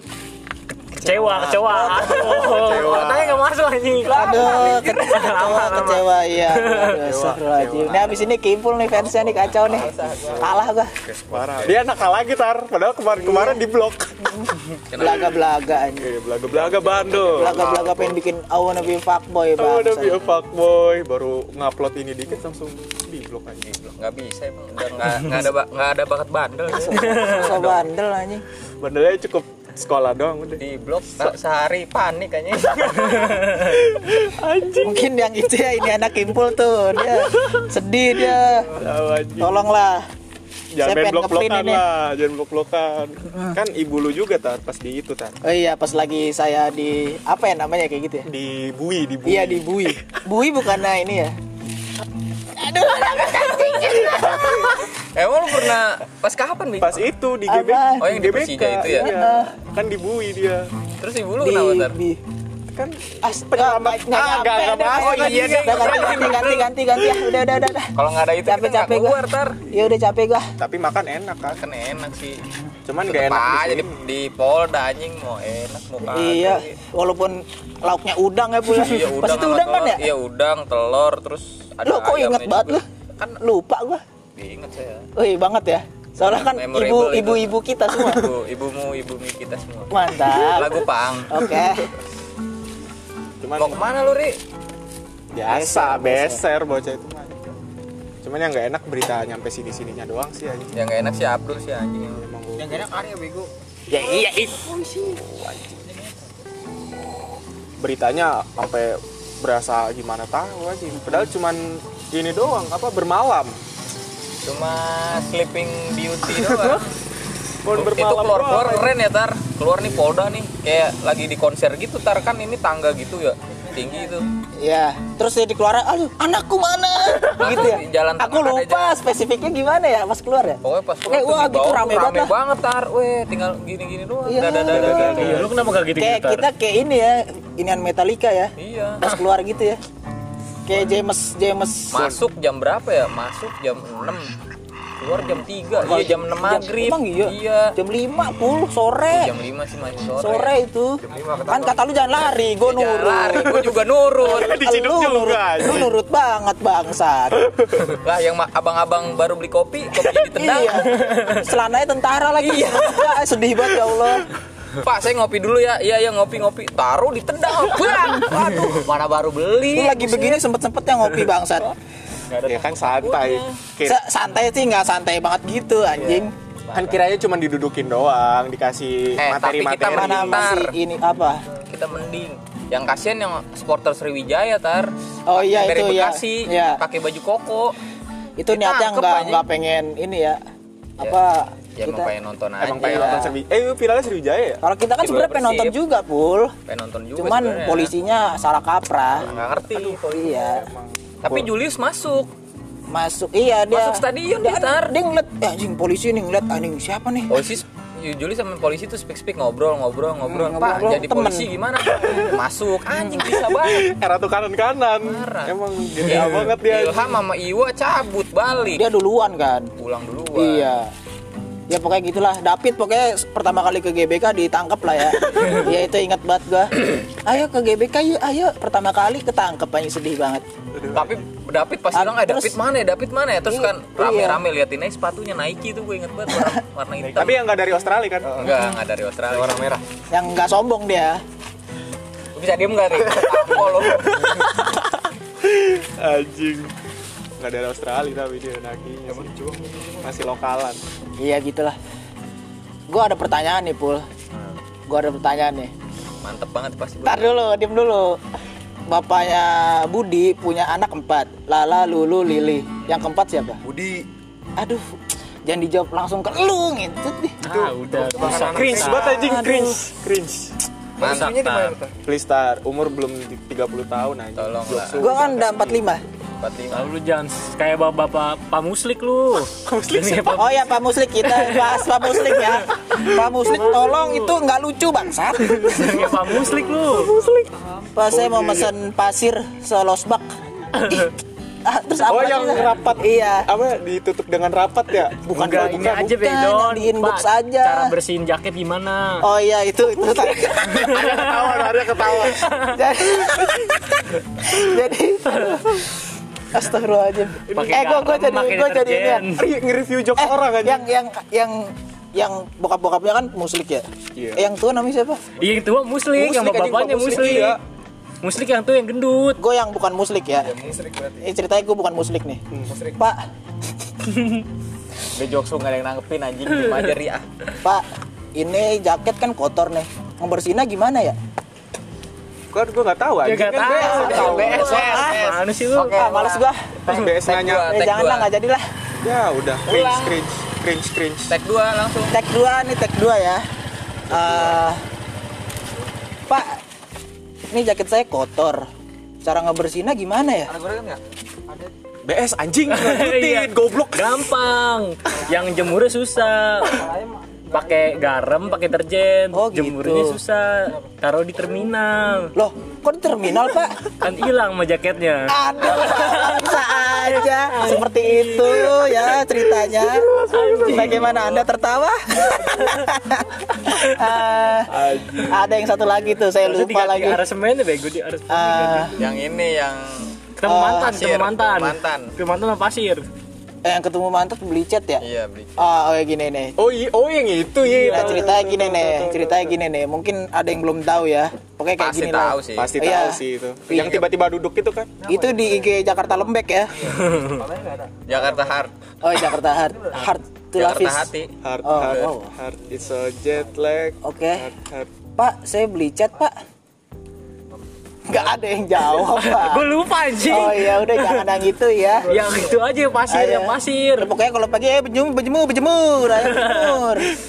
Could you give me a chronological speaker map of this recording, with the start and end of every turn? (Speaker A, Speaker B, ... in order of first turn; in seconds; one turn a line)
Speaker A: 0.9-7.0
Speaker B: 1.0-3.5
Speaker C: 1.6-2.4
Speaker D: 4.0-5.2
Speaker C: 4.1-10.9
Speaker B: 6.8-8.3
Speaker D: 9.0-10.6
Speaker B: 9.7-14.4
Speaker D: 11.3-11.8
Speaker C: 13.2-13.6
Speaker D: 14.9-15.4
Speaker C: 15.0-16.1
Speaker B: 15.9-18.2
Speaker D: 16.5-18.1
Speaker C: 17.3-20.3
Speaker B: 19.6-23.6
Speaker D: 23.6-27.9
Speaker C: 26.7-28.4
Speaker B: 28.8-30.6
Speaker D: 30.6-33.8
Speaker B: 33.7-35.1
Speaker C: 34.8-38.7
Speaker B: 38.2-39.7
Speaker C: 39.4-40.0
Speaker B: 40.7-45.4
Speaker C: 40.8-41.8
Speaker C: 45.4-48.3
Speaker B: 48.2-50.0
Speaker C: 49.2-51.4
Speaker C: 52.5-54.8
Speaker D: 53.1-57.0
Speaker B: 54.2-54.7
Speaker B: 56.8-60.7
Speaker C: 57.5-58.1
Speaker D: 58.0-59.2
Speaker C: 58.9-59.5
Speaker D: 61.0-62.0
Speaker C: 61.4-62.2
Speaker B: 62.7-67.4
Speaker C: 63.2-67.9
Speaker D: 64.9-66.7
Speaker D: 67.9-69.6
Speaker C: 68.4-69.2
Speaker C: 69.7-70.5
Speaker B: 70.6-71.6
Speaker D: 71.5-72.4
Speaker B: 72.8-74.0
Speaker D: 73.0-76.8
Speaker C: 76.1-80.0
Speaker D: 78.6-83.4
Speaker C: 81.8-82.8
Speaker C: 83.4-84.0
Speaker D: 84.3-85.1
Speaker C: 85.2-88.3
Speaker D: 86.2-91.4
Speaker C: 89.9-91.9
Speaker B: 93.4-93.8
Speaker D: 93.6-94.4
Speaker B: 95.3-97.5
Speaker C: 95.5-96.4
Speaker B: 98.2-100.7
Speaker D: 100.7-102.2
Speaker B: 102.1-102.9
Speaker C: 102.6-105.1
Speaker B: 103.9-105.8
Speaker B: 107.8-113.6
Speaker D: 114.4-116.9
Speaker B: 116.3-116.8
Speaker B: 117.6-119.0
Speaker D: 117.7-124.2
Speaker C: 124.6-132.3
Speaker D: 127.3-129.0
Speaker D: 130.6-135.7
Speaker C: 134.2-135.4
Speaker B: 134.5-135.8
Speaker A: 134.9-136.5
Speaker C: 135.9-139.8
Speaker D: 138.6-139.1
Speaker C: 140.7-142.2
Speaker D: 141.9-144.3
Speaker D: 145.0-147.8
Speaker C: 145.8-149.3
Speaker D: 149.1-150.6
Speaker C: 150.2-153.8
Speaker E: 151.1-151.8
Speaker D: 152.6-154.6
Speaker B: 154.2-155.9
Speaker C: 154.3-157.4
Speaker D: 157.8-160.8
Speaker C: 160.2-164.3
Speaker A: 161.1-161.3
Speaker D: 162.4-163.2
Speaker D: 164.7-170.4
Speaker C: 167.9-168.8
Speaker C: 169.7-171.7
Speaker D: 172.3-173.6
Speaker B: 172.4-174.0
Speaker C: 173.8-176.3
Speaker D: 176.0-177.0
Speaker B: 176.7-180.6
Speaker D: 179.2-180.8
Speaker C: 179.9-181.4
Speaker D: 181.7-187.8
Speaker C: 185.3-186.8
Speaker C: 188.4-190.4
Speaker D: 188.5-189.4
Speaker C: 191.0-192.1
Speaker D: 191.8-193.3
Speaker B: 192.6-194.6
Speaker C: 192.8-193.3
Speaker C: 194.6-196.5
Speaker D: 195.0-195.8
Speaker D: 196.7-197.9
Speaker C: 197.2-199.3
Speaker B: 199.1-201.5
Speaker D: 199.2-200.6
Speaker C: 200.0-200.6
Speaker D: 201.2-202.3
Speaker C: 202.9-207.4
Speaker D: 203.7-204.9
Speaker D: 207.3-213.9
Speaker C: 210.2-211.5
Speaker B: 212.0-212.2
Speaker B: 213.2-217.2
Speaker D: 215.0-218.9
Speaker C: 218.8-219.7
Speaker D: 219.8-220.8
Speaker C: 220.3-220.9
Speaker C: 221.7-230.4
Speaker B: 230.7-231.2
Speaker D: 230.9-237.4
Speaker C: 231.9-232.6
Speaker C: 233.5-234.4
Speaker B: 237.0-238.5
Speaker E: 238.2-238.5
Speaker D: 238.4-239.8
Speaker E: 239.3-239.8
Speaker C: 240.1-241.2
Speaker D: 242.3-244.4
Speaker B: 244.2-244.6
Speaker B: 245.4-246.7
Speaker B: 247.4-249.3
Speaker E: 249.1-250.1
Speaker B: 250.0-250.8
Speaker C: 251.2-251.8
Speaker C: 252.9-254.1
Speaker C: 254.9-255.7
Speaker D: 256.2-257.3
Speaker C: 257.0-258.2
Speaker C: 258.9-263.6
Speaker E: 263.6-264.1
Speaker C: 264.6-264.9
Speaker C: 265.4-267.4
Speaker A: 267.4-269.2
Speaker E: 267.4-269.1
Speaker B: 268.2-270.6
Speaker C: 269.0-269.8
Speaker D: 271.0-271.8
Speaker E: 271.0-271.9
Speaker B: 272.0-275.9
Speaker D: 274.4-275.0
Speaker C: 275.0-276.0
Speaker D: 276.4-276.9
Speaker A: 276.7-284.3
Speaker B: 279.6-280.6
Speaker C: 280.3-286.1
Speaker A: 285.5-287.1
Speaker B: 286.8-287.5
Speaker C: 287.9-290.3
Speaker B: 288.1-288.7
Speaker C: 290.8-291.1
Speaker C: 291.6-293.5
Speaker B: 292.0-296.1
Speaker C: 295.3-297.9
Speaker A: 295.3-299.2
Speaker C: 299.2-301.0
Speaker B: 300.7-302.5
Speaker A: 300.9-301.4
Speaker C: 302.2-305.8
Speaker A: 302.4-302.7
Speaker C: 306.5-309.3
Speaker A: 307.5-309.5
Speaker B: 309.3-310.9
Speaker C: 310.2-315.2
Speaker B: 314.1-314.5
Speaker A: 315.4-317.6
Speaker B: 316.1-317.6
Speaker A: 318.2-319.4
Speaker C: 319.4-320.5
Speaker E: 320.4-321.3
Speaker C: 321.2-322.4
Speaker E: 322.7-323.0
Speaker C: 322.9-323.2
Speaker D: 325.1-327.2
Speaker C: 327.6-331.2
Speaker B: 332.5-335.0
Speaker A: 333.2-336.0
Speaker D: 333.7-336.5
Speaker C: 333.8-335.3
Speaker C: 335.9-338.6
Speaker B: 336.9-337.7
Speaker D: 337.1-338.3
Speaker B: 339.0-341.3
Speaker D: 339.7-340.2
Speaker D: 341.3-342.1
Speaker C: 342.1-343.4
Speaker C: 344.1-344.8
Speaker B: 344.1-344.6
Speaker C: 346.3-346.6
Speaker C: 347.5-348.6
Speaker C: 349.2-350.5
Speaker E: 350.5-351.0
Speaker B: 352.0-354.3
Speaker A: 352.7-356.9
Speaker A: 357.5-362.3
Speaker C: 359.3-360.2
Speaker C: 362.4-363.9
Speaker A: 363.9-371.2
Speaker C: 365.3-374.7
Speaker D: 371.1-371.4
Speaker A: 372.5-372.8
Speaker B: 374.7-375.9
Speaker C: 375.2-377.2
Speaker A: 376.4-379.0
Speaker C: 378.3-378.9
Speaker D: 379.0-380.1
Speaker A: 380.4-383.1
Speaker C: 380.4-381.0
Speaker D: 380.9-382.1
Speaker C: 383.6-385.0
Speaker D: 385.0-385.7
Speaker C: 385.6-386.5
Speaker B: 386.6-389.6
Speaker C: 387.8-394.0
Speaker D: 391.8-392.8
Speaker B: 392.5-395.0
Speaker E: 395.0-395.8
Speaker C: 395.1-396.8
Speaker E: 396.8-398.6
Speaker A: 397.0-397.3
Speaker D: 398.1-398.7
Speaker C: 399.0-401.1
Speaker D: 400.5-401.3
Speaker B: 401.4-404.9
Speaker C: 401.6-402.3
Speaker C: 404.0-404.5
Speaker C: 405.1-406.4
Speaker C: 408.1-409.6
Speaker A: 408.8-411.3
Speaker C: 410.2-412.2
Speaker A: 412.1-414.1
Speaker C: 413.1-417.1
Speaker A: 416.1-416.8